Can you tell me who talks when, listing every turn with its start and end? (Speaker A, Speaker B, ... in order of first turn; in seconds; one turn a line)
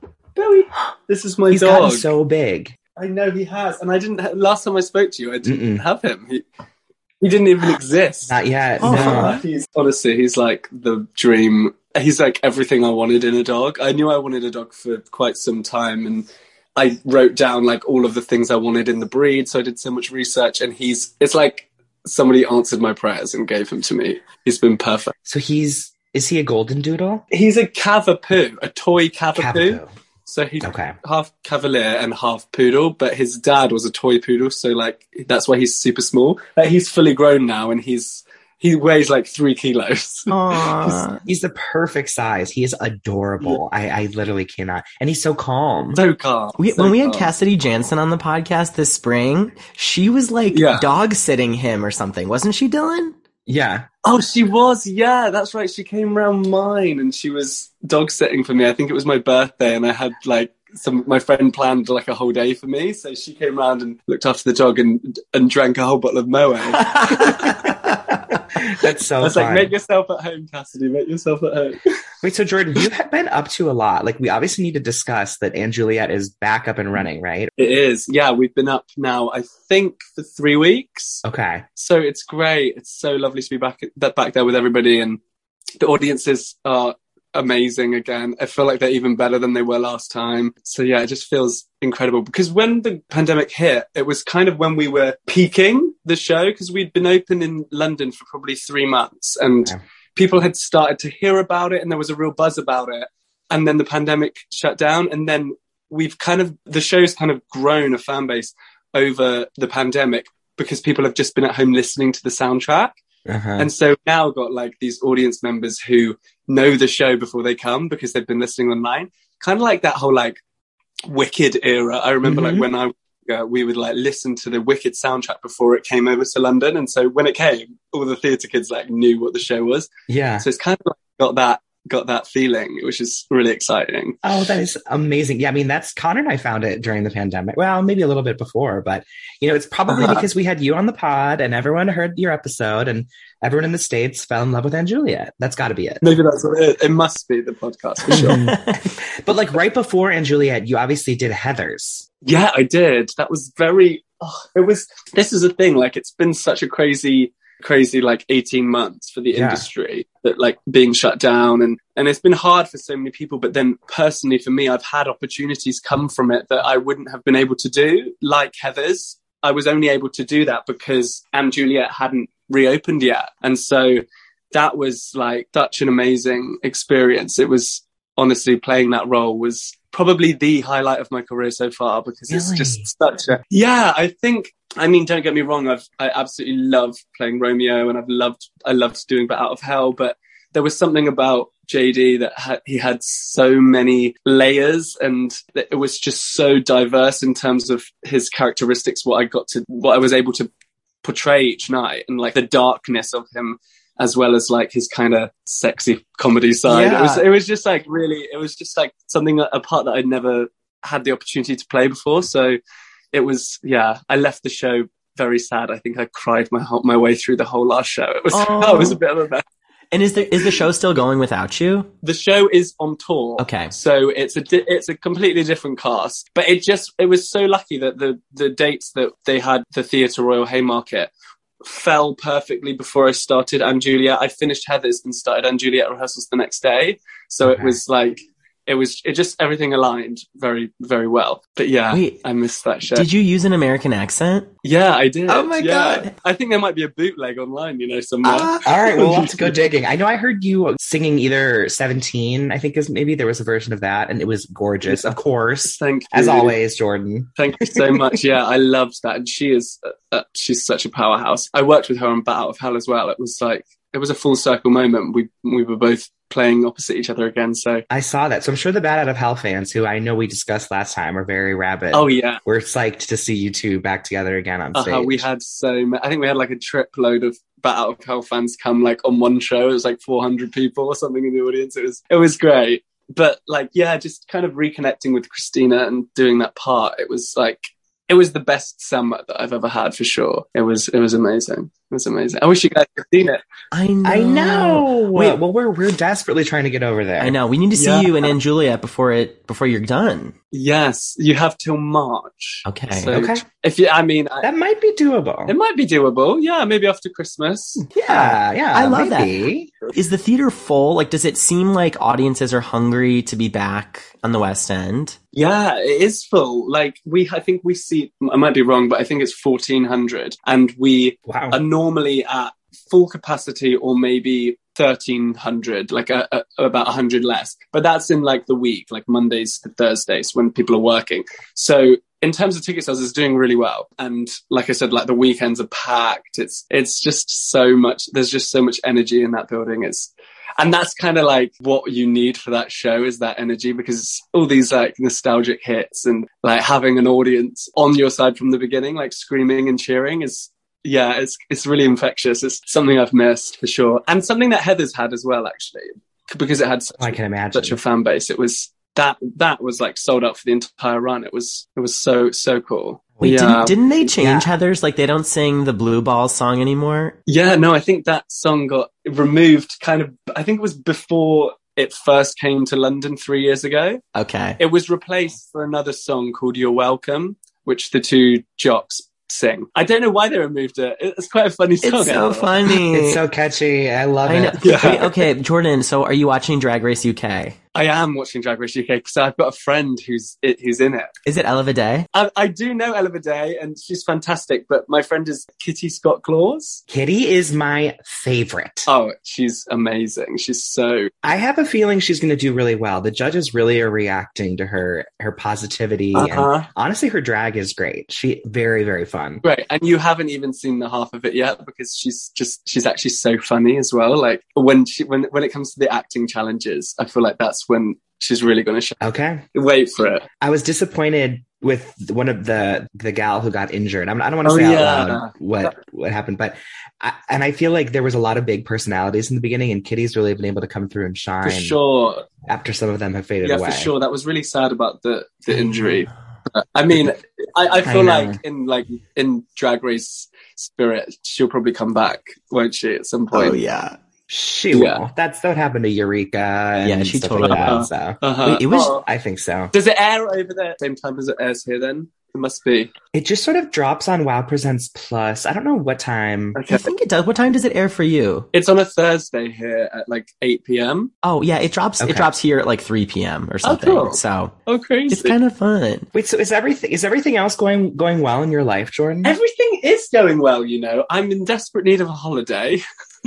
Speaker A: 0.3-2.1
Speaker B: 1.5-2.8
Speaker A: 3.0-6.4
Speaker B: 5.4-5.8
Speaker A: 7.2-25.1
Speaker B: 8.3-9.3
Speaker C: 8.8-9.4
Speaker B: 25.2-27.2
Speaker A: 27.3-40.3
Speaker B: 29.4-29.9
Speaker B: 30.6-30.9
Speaker C: 40.3-41.2
Speaker B: 41.2-46.0
Speaker A: 45.9-47.3
Speaker C: 46.6-53.1
Speaker A: 50.5-50.9
Speaker B: 53.5-53.9
Speaker A: 54.0-66.8
Speaker B: 67.2-67.5
Speaker B: 68.5-69.7
Speaker A: 69.2-71.9
Speaker B: 72.2-77.5
Speaker A: 77.6-81.2
Speaker B: 81.2-81.6
Speaker A: 81.8-85.2
Speaker A: 85.8-113.0
Speaker B: 113.2-113.7
Speaker A: 113.6-120.4
Speaker A: 121.1-129.9
Speaker B: 122.2-122.7
Speaker B: 130.1-130.4
Speaker A: 130.4-134.2
Speaker B: 134.2-146.0
Speaker A: 139.9-140.2
Speaker A: 146.0-148.4
Speaker B: 148.1-152.1
Speaker C: 148.2-148.5
Speaker A: 152.2-200.5
Speaker B: 159.3-159.7
Speaker B: 182.3-182.8
Speaker A: 201.0-212.6
Speaker B: 206.7-207.2
Speaker A: 213.1-219.4
Speaker C: 218.3-219.0
Speaker C: 219.9-221.9
Speaker A: 222.0-243.1
Speaker C: 223.4-223.7
Speaker C: 241.9-242.2
Speaker C: 242.9-244.5
Speaker A: 244.6-249.7
Speaker C: 245.3-246.1
Speaker C: 248.2-248.7
Speaker B: 248.6-258.2
Speaker A: 254.8-256.5
Speaker A: 257.4-267.8
Speaker B: 267.9-275.2
Speaker A: 271.9-272.4
Speaker A: 274.7-293.4
Speaker C: 293.7-295.4
Speaker B: 294.0-297.4
Speaker C: 297.2-300.3
Speaker A: 297.7-298.2
Speaker A: 300.5-304.5
Speaker C: 302.6-303.2
Speaker B: 303.0-303.4
Speaker B: 304.4-305.5
Speaker A: 305.5-307.9
Speaker C: 307.9-309.3
Speaker B: 307.9-309.7
Speaker C: 309.9-315.2
Speaker A: 315.3-363.8
Speaker B: 321.3-321.6
Speaker B: 357.0-357.8
Speaker B: 363.2-363.5
Speaker C: 363.2-367.1
Speaker B: 364.1-364.5
Speaker A: 367.3-374.0
Speaker C: 374.1-374.6
Speaker A: 374.6-382.5
Speaker C: 381.8-383.2
Speaker B: 382.9-385.1
Speaker C: 384.2-387.6
Speaker A: 384.6-385.1
Speaker A: 387.7-391.1
Speaker C: 391.2-392.1
Speaker A: 392.1-396.8
Speaker B: 396.9-398.9
Speaker A: 398.9-401.1
Speaker B: 401.2-409.4
Speaker A: 406.1-406.7
Speaker A: 409.4-419.0
Speaker B: 419.0-419.4
Speaker A: 419.5-420.2
Speaker B: 420.4-431.8
Speaker A: 424.4-425.7
Speaker A: 431.4-432.2
Speaker B: 432.5-433.9
Speaker A: 433.4-443.6
Speaker B: 437.9-438.4
Speaker C: 443.3-444.0
Speaker B: 444.3-448.2
Speaker A: 444.7-445.0
Speaker C: 446.8-447.8
Speaker A: 447.4-449.1
Speaker C: 448.4-449.0
Speaker B: 449.0-449.7
Speaker A: 449.7-452.9
Speaker B: 453.1-456.6
Speaker A: 456.5-456.9
Speaker C: 456.7-458.5
Speaker A: 458.5-461.1
Speaker C: 461.2-464.5
Speaker B: 462.0-462.3
Speaker A: 463.6-465.4
Speaker C: 465.1-466.1
Speaker B: 466.1-469.4
Speaker A: 469.2-472.8